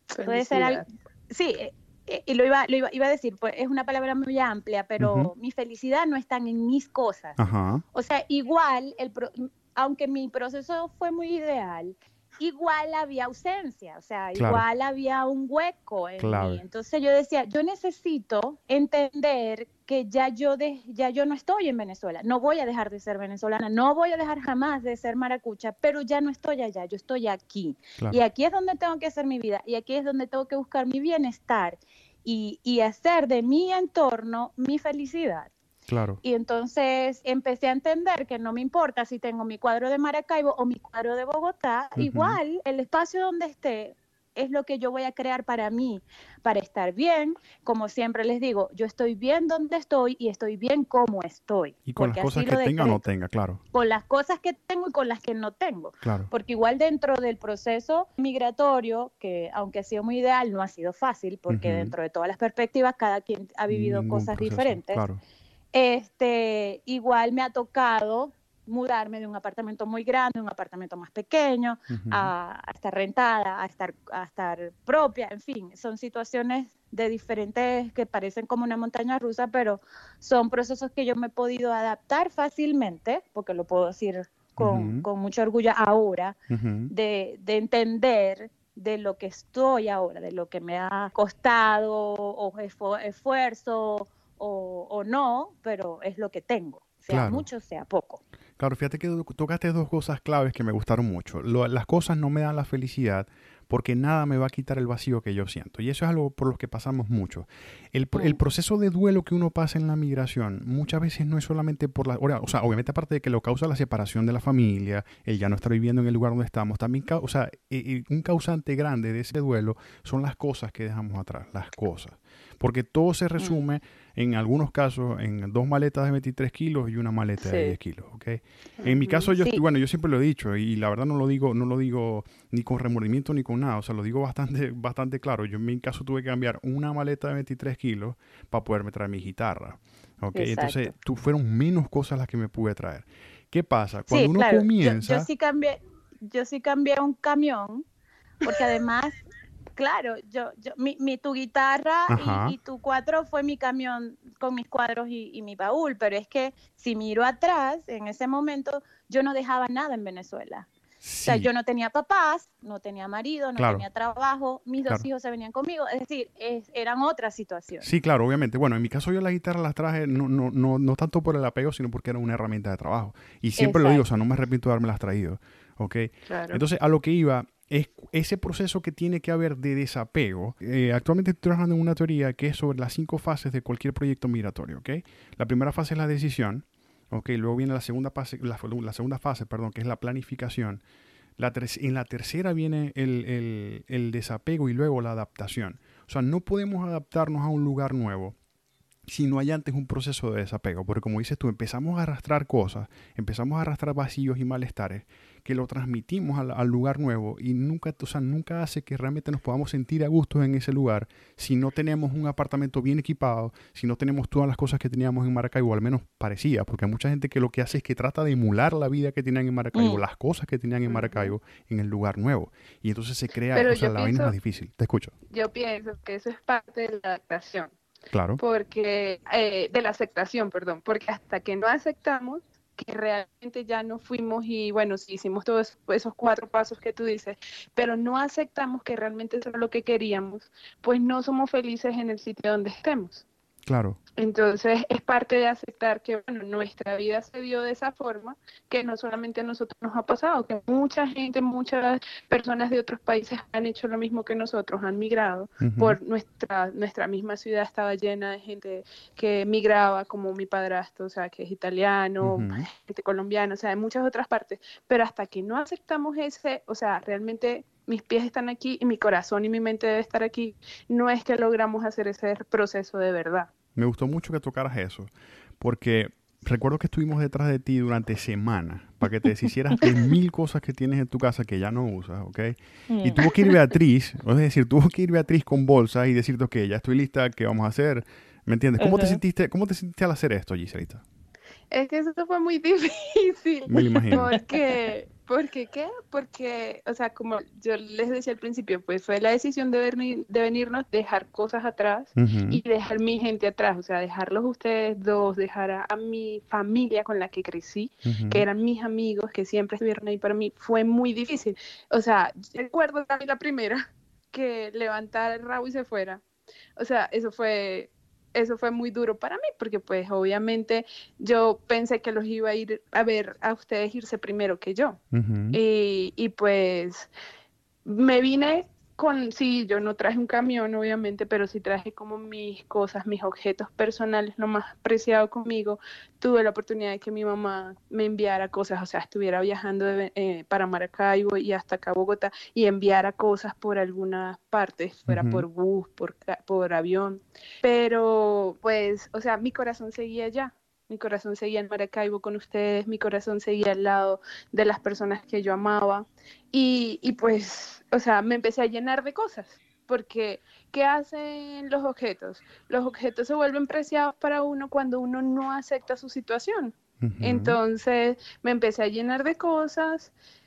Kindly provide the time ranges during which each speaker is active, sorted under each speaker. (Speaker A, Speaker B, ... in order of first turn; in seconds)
Speaker A: 0.1-0.9, 176.3-176.6, 223.5-224.3, 225.3-227.7, 228.4-243.2, 244.2-273.5, 291.7-316.2, 316.8-325.0, 325.5-327.1, 327.8-370.1
Speaker B: 0.2-7.4, 7.9-35.5, 36.2-53.0, 53.7-65.0, 65.7-86.4, 86.9-98.2, 108.1-108.4, 123.4-123.6, 127.4-127.8, 129.1-129.6, 140.3-140.9, 144.1-147.8, 148.4-149.2, 149.7-160.7, 161.2-167.9, 173.6-174.0, 219.7-220.0, 282.9-283.6, 288.8-289.2, 294.1-294.6
Speaker C: 5.0-5.3, 7.4-7.8, 14.3-14.6, 16.2-16.6, 35.9-36.2, 42.0-42.4, 51.9-53.6, 56.0-56.3, 61.5-61.9, 63.7-65.2, 71.9-72.3, 84.6-85.0, 86.5-86.9, 97.1-97.5, 98.6-145.3, 152.1-152.5, 161.0-161.5, 163.6-163.8, 167.8-190.8, 191.4-198.3, 199.1-225.1, 228.1-228.4, 243.7-244.0, 255.6-256.0, 262.2-262.7, 273.8-291.0, 293.7-294.3, 302.1-302.6, 308.1-308.4, 325.1-325.6, 345.1-345.4, 367.0-367.6